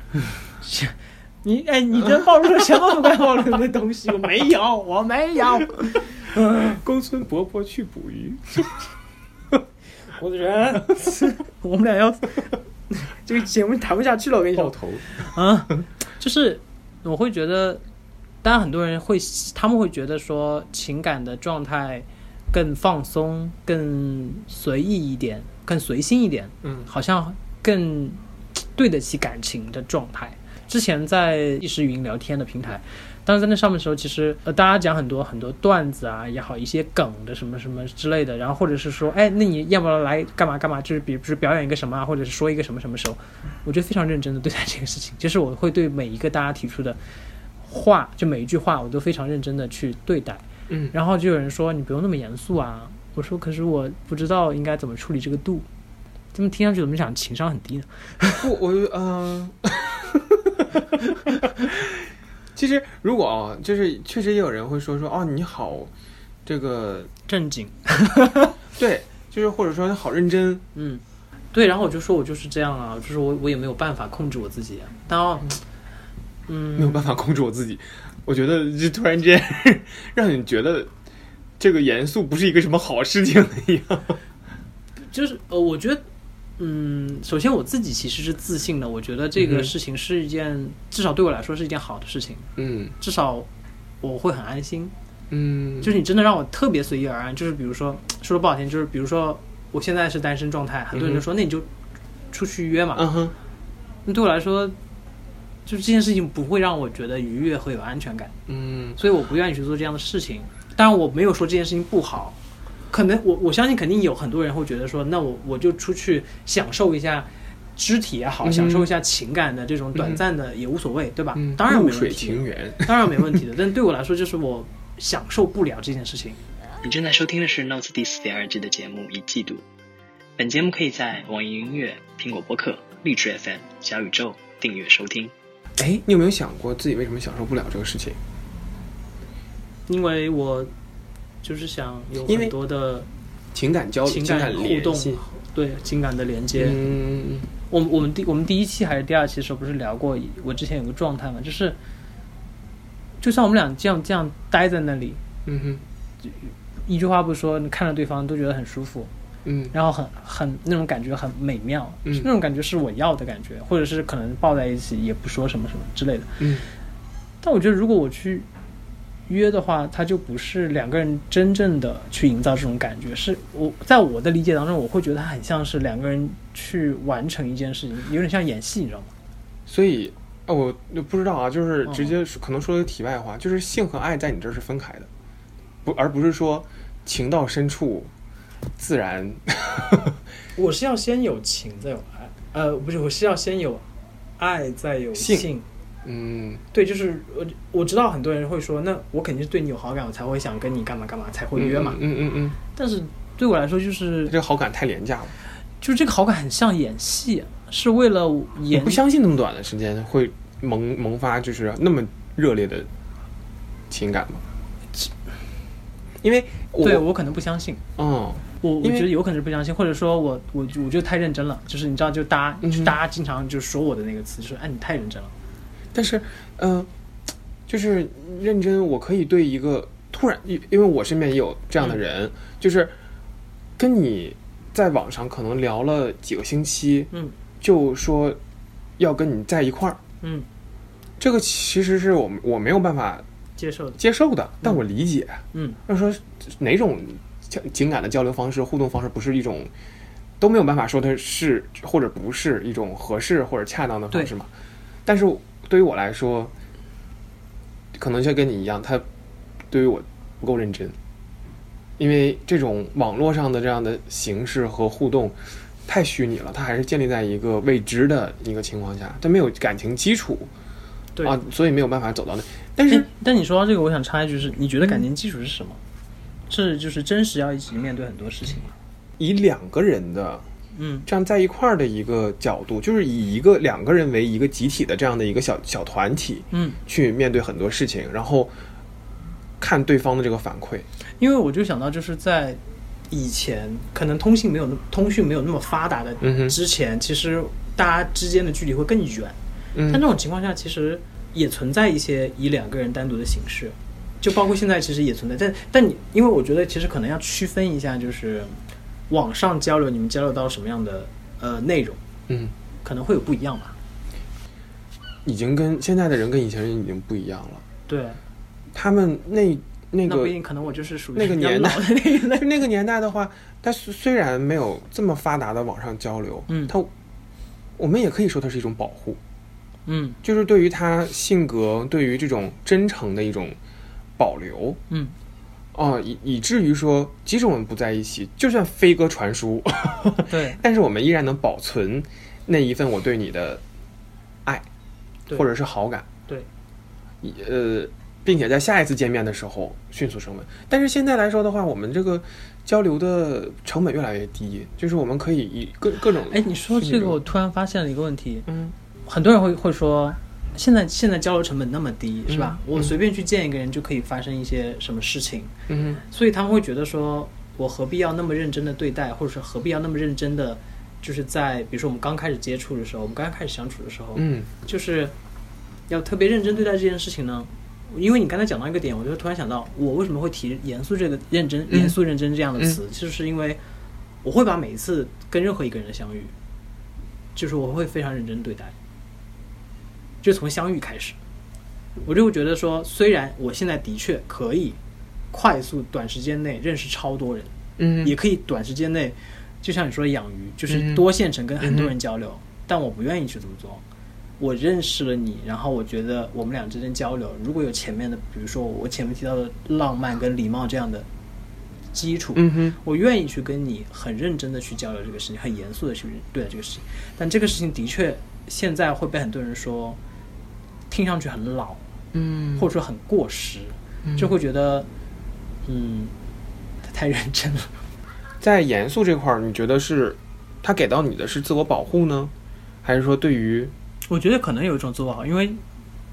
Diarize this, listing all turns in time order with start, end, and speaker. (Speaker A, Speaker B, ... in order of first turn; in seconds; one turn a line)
Speaker A: 0.2-6.8
Speaker B: 6.5-8.8
Speaker A: 10.2-17.8
Speaker B: 14.6-15.1
Speaker A: 18.4-47.0
Speaker A: 47.6-55.6
Speaker A: 56.3-58.4
Speaker B: 58.4-60.9
Speaker B: 61.4-65.9
Speaker B: 66.5-67.1
Speaker A: 67.3-68.5
Speaker B: 68.7-70.6
Speaker A: 70.7-75.6
Speaker A: 76.5-77.1
Speaker B: 76.8-80.9
Speaker B: 81.6-84.2
Speaker A: 85.1-86.0
Speaker A: 86.6-93.5
Speaker B: 89.4-89.7
Speaker B: 92.6-93.0
Speaker A: 94.0-94.9
Speaker B: 95.3-95.9
Speaker A: 95.8-101.7
Speaker B: 100.9-101.2
Speaker A: 102.3-103.1
Speaker B: 102.9-103.3
Speaker A: 104.0-104.8
Speaker A: 105.7-108.3
Speaker B: 108.5-109.0
Speaker A: 109.0-112.4
Speaker A: 112.9-126.4
Speaker B: 118.4-118.9
Speaker B: 121.3-123.4
Speaker C: 126.8-129.6
Speaker C: 130.4-135.3
Speaker B: 135.8-138.2
Speaker A: 139.9-140.7
Speaker A: 141.4-143.1
Speaker B: 142.2-142.5
Speaker B: 143.5-145.2
Speaker A: 144.0-146.8
Speaker B: 146.6-147.5
Speaker A: 147.7-151.8
Speaker A: 153.2-155.2
Speaker B: 155.4-155.8
Speaker A: 156.2-159.1
Speaker B: 159.4-159.7
Speaker A: 159.7-166.4
Speaker B: 166.4-166.7
Speaker A: 167.4-168.5
Speaker A: 169.3-179.1
Speaker B: 179.7-185.1
Speaker A: 181.8-182.1
Speaker B: 185.8-188.1
Speaker B: 188.8-190.2
Speaker A: 190.5-193.8
Speaker A: 194.4-195.7
Speaker B: 195.2-195.5
Speaker B: 196.0-196.6
Speaker A: 196.7-202.0
Speaker B: 201.6-202.6
Speaker A: 202.7-204.3
Speaker B: 204.3-205.3
Speaker A: 205.8-209.0
Speaker B: 208.7-212.9
Speaker B: 213.9-214.4
Speaker B: 216.2-217.0
Speaker A: 216.8-217.8
Speaker B: 218.0-219.1
Speaker A: 218.6-225.3
Speaker B: 222.6-222.9
Speaker B: 225.9-226.9
Speaker B: 227.7-232.9
Speaker B: 233.8-238.4
Speaker B: 239.0-240.0
Speaker A: 240.2-240.5
Speaker B: 241.2-243.2
Speaker A: 243.6-244.0
Speaker B: 244.0-249.7
Speaker A: 245.5-245.8
Speaker B: 250.4-254.5
Speaker B: 255.1-256.5
Speaker B: 257.9-259.0
Speaker B: 259.7-260.9
Speaker B: 262.0-270.5
Speaker B: 271.2-273.1
Speaker A: 272.9-275.8
Speaker A: 276.5-278.7
Speaker B: 279.2-280.4
Speaker A: 280.7-281.1
Speaker B: 281.1-288.5
Speaker A: 286.5-286.8
Speaker B: 289.6-290.9
Speaker A: 291.2-292.6
Speaker A: 293.1-299.4
Speaker B: 296.2-296.5
Speaker B: 299.7-300.0
Speaker A: 299.9-308.6
Speaker A: 309.1-312.0
Speaker B: 312.3-312.5
Speaker A: 312.8-313.7
Speaker B: 315.2-317.6
Speaker A: 317.9-318.2
Speaker B: 318.7-320.3
Speaker A: 320.1-322.6
Speaker B: 321.1-326.9
Speaker A: 326.5-326.7
Speaker B: 327.8-329.2
Speaker A: 329.9-330.2
Speaker B: 330.2-333.6
Speaker B: 334.2-334.8
Speaker B: 335.7-343.6
Speaker A: 340.3-340.6
Speaker B: 345.3-346.1
Speaker B: 347.2-357.2
Speaker A: 356.3-358.5
Speaker B: 358.5-358.7
Speaker A: 359.1-365.5
Speaker B: 362.3-362.9
Speaker B: 365.7-366.0
Speaker A: 366.1-375.1
Speaker B: 374.1-374.5
Speaker A: 375.9-383.6
Speaker B: 381.7-381.9
Speaker A: 384.2-386.3
Speaker A: 387.4-388.7
Speaker A: 390.2-391.2
Speaker A: 392.0-394.8
Speaker A: 395.3-403.8
Speaker B: 397.8-398.1
Speaker B: 400.7-401.0
Speaker B: 401.6-401.9
Speaker A: 404.4-411.1
Speaker A: 411.9-420.0
Speaker B: 412.4-412.8
Speaker A: 420.9-421.8
Speaker B: 422.1-422.7
Speaker A: 422.6-424.9
Speaker B: 424.0-424.3
Speaker A: 425.6-426.1
Speaker A: 426.8-427.7
Speaker B: 428.4-432.3
Speaker B: 432.8-433.7
Speaker A: 434.1-435.6